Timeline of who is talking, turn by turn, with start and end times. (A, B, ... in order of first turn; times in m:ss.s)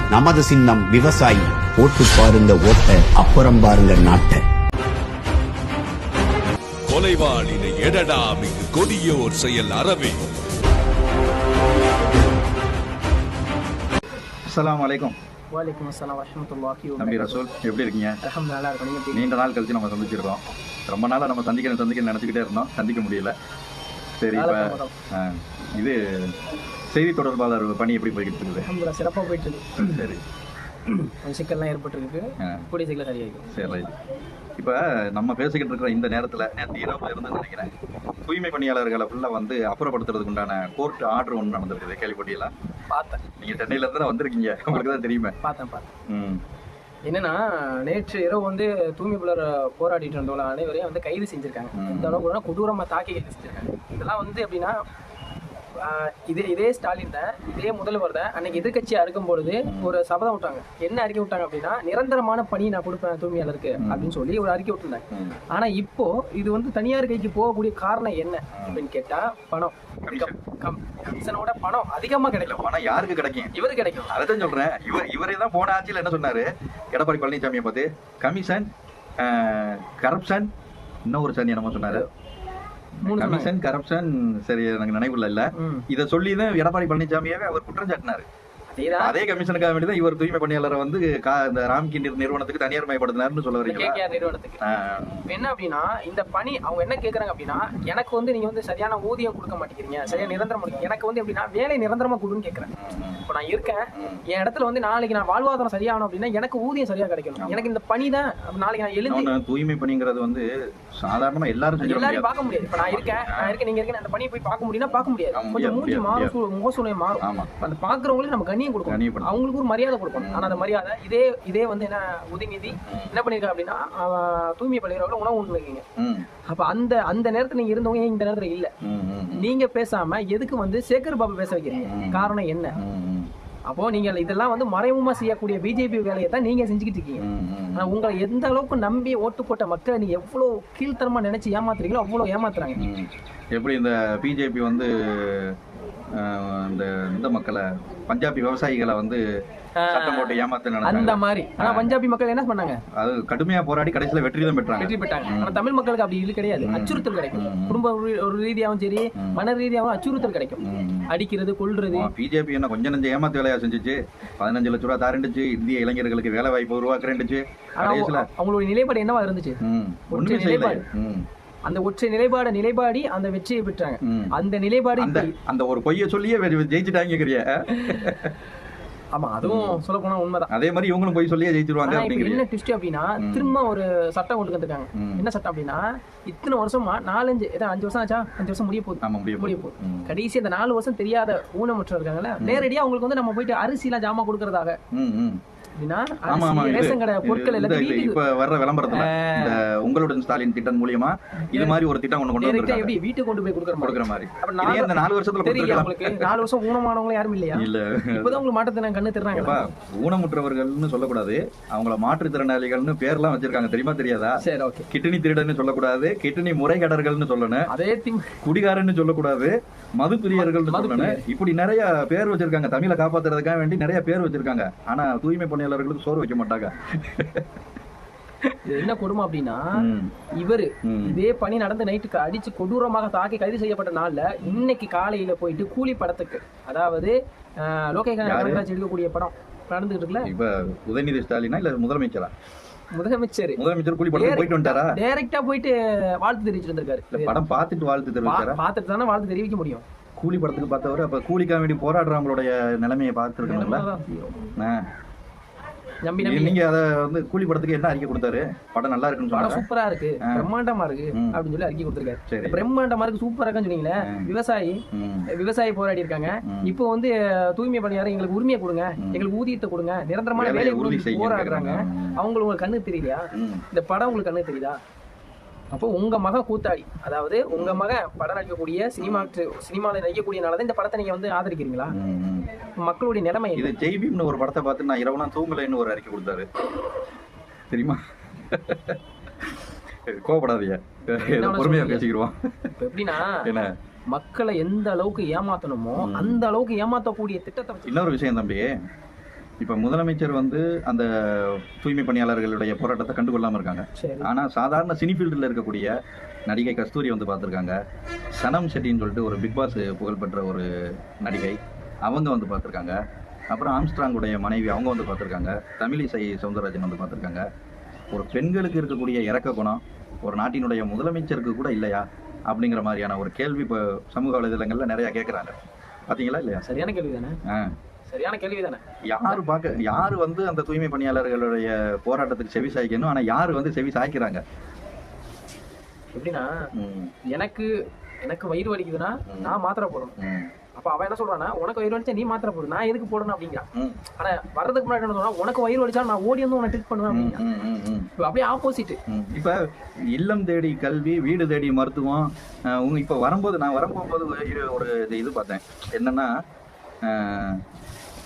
0:00.1-0:04.4 A
0:06.9-0:10.3 B
0:14.5-0:15.2 C
0:15.5-0:17.4 D
0:17.0-0:18.2 C
0:18.2-0:19.2 D
0:19.1-0:23.3 C
0:24.2-0:26.4 C
0:24.3-0:24.9 D
0:26.9-0:28.7 C
0:28.6-0:30.1 D
0:29.8-0:30.2 C
0:30.9-0:33.6 D
0:33.5-0:33.9 C
0:34.6-0:37.7 C
0:38.2-0:42.5 C
0:42.9-0:43.3 D
0:43.4-0:45.4 C
0:44.7-0:45.9 D
0:46.1-0:46.4 C
0:47.1-0:54.8 D
0:51.8-0:52.2 C
0:55.8-1:12.7 D
0:59.6-1:00.0 C
1:03.8-1:04.2 C
1:05.1-1:05.4 C
1:08.6-1:08.8 C
1:10.0-1:10.4 C
1:12.4-1:13.5 C
1:13.5-1:14.1 D
1:14.1-1:20.5 C
1:21.1-1:22.1 C
1:23.0-1:28.3 C
1:23.0-1:23.5 D
1:25.5-1:25.9 D
1:28.7-1:29.2 D
1:28.9-1:34.0 C
1:33.6-1:34.6 D
1:34.6-1:35.4 C
1:35.3-1:42.7 D
1:40.1-1:40.4 C
1:42.8-1:43.2 C
1:43.3-1:49.3 D
1:44.0-1:44.2 C
1:47.4-1:47.7 C
1:49.1-1:53.6 C
1:51.8-2:05.8 D
1:54.9-1:56.3 C
1:57.2-1:57.5 C
1:58.9-1:59.3 C
2:00.2-2:00.7 C
2:02.8-2:03.2 C
2:06.0-2:06.3 C
2:06.5-2:08.7 D
2:08.8-2:09.5 C
2:09.3-2:12.8 D
2:11.9-2:13.3 C
2:13.7-2:22.9 D
2:17.2-2:18.0 C
2:22.8-2:25.6 C
2:26.1-2:29.2 C
2:29.8-2:32.8 D
2:29.9-2:32.0 C
2:33.0-2:35.6 C
2:34.8-2:42.1 D
2:36.6-2:37.8 C
2:39.2-2:39.4 C
2:40.6-2:41.1 C
2:41.9-2:48.3 C
2:47.8-2:49.6 D
2:49.6-2:51.3 C
2:50.1-2:50.8 D
2:51.7-2:55.3 D
2:54.0-2:54.3 C
2:55.0-2:58.3 C
2:57.7-2:58.3 D
2:59.1-3:00.5 D
2:59.4-2:59.8 C
3:00.5-3:02.4 C
3:01.8-3:14.8 D
3:03.2-3:03.6 C
3:05.0-3:05.3 C
3:09.0-3:10.2 C
3:12.4-3:12.7 C
3:14.9-3:15.4 C
3:15.8-3:18.2 D
3:16.2-3:23.0 C
3:18.9-3:19.6 D
3:21.5-3:21.8 D
3:22.4-3:29.7 D
3:23.8-3:26.5 C
3:27.5-3:28.4 C
3:29.3-3:37.7 C
3:34.4-3:34.9 D
3:37.7-3:38.4 D
3:38.4-3:47.5 C
3:40.4-3:41.2 D
3:48.6-3:49.6 D
3:49.8-3:50.1 C
3:50.4-4:00.3 D
3:50.8-3:51.2 C
3:58.2-3:58.6 C
4:00.2-4:02.3 C
4:02.9-4:03.6 D
4:03.6-4:05.0 C
4:04.1-4:07.4 D
4:07.1-4:08.6 C
4:08.2-4:09.8 D
4:10.2-4:13.8 C
4:13.4-4:14.5 D
4:14.6-4:14.9 C
4:16.0-4:16.6 D
4:16.2-4:19.7 C
4:19.3-4:34.8 D
4:20.2-4:20.5 C
4:21.1-4:21.4 C
4:22.3-4:22.6 C
4:24.0-4:24.3 C
4:24.9-4:25.3 C
4:26.5-4:26.8 C
4:29.0-4:29.3 C
4:30.4-4:32.2 C
4:33.4-4:33.6 C
4:35.7-4:42.0 D
4:37.5-4:37.8 C
4:39.0-4:39.3 C
4:41.9-4:42.5 C
4:42.8-4:43.8 D
4:43.6-4:46.5 C
4:47.7-4:49.5 C
4:50.1-4:52.7 C
4:51.1-4:52.1 D
4:52.7-4:53.5 D
4:53.2-4:53.7 C
4:54.1-4:58.1 D
4:56.0-4:56.4 C
4:57.9-4:58.7 C
4:59.6-5:06.0 C
5:04.0-5:04.3 D
5:06.5-5:07.8 C
5:08.4-5:10.7 C
5:11.2-5:13.0 C
5:13.5-5:17.5 C
5:18.1-5:26.6 C
5:26.6-5:27.4 D
5:27.5-5:27.8 C
5:28.1-5:29.4 D
5:29.1-5:34.4 C
5:36.1-5:36.6 D
5:36.8-5:37.1 C
5:37.3-5:40.2 D
5:39.3-5:39.6 C
5:40.2-5:40.5 C
5:40.8-5:47.4 D
5:43.8-5:44.0 C
5:47.1-5:48.1 C
5:48.2-5:49.0 D
5:49.1-5:49.6 C
5:50.1-5:56.3 C
5:57.0-5:57.6 C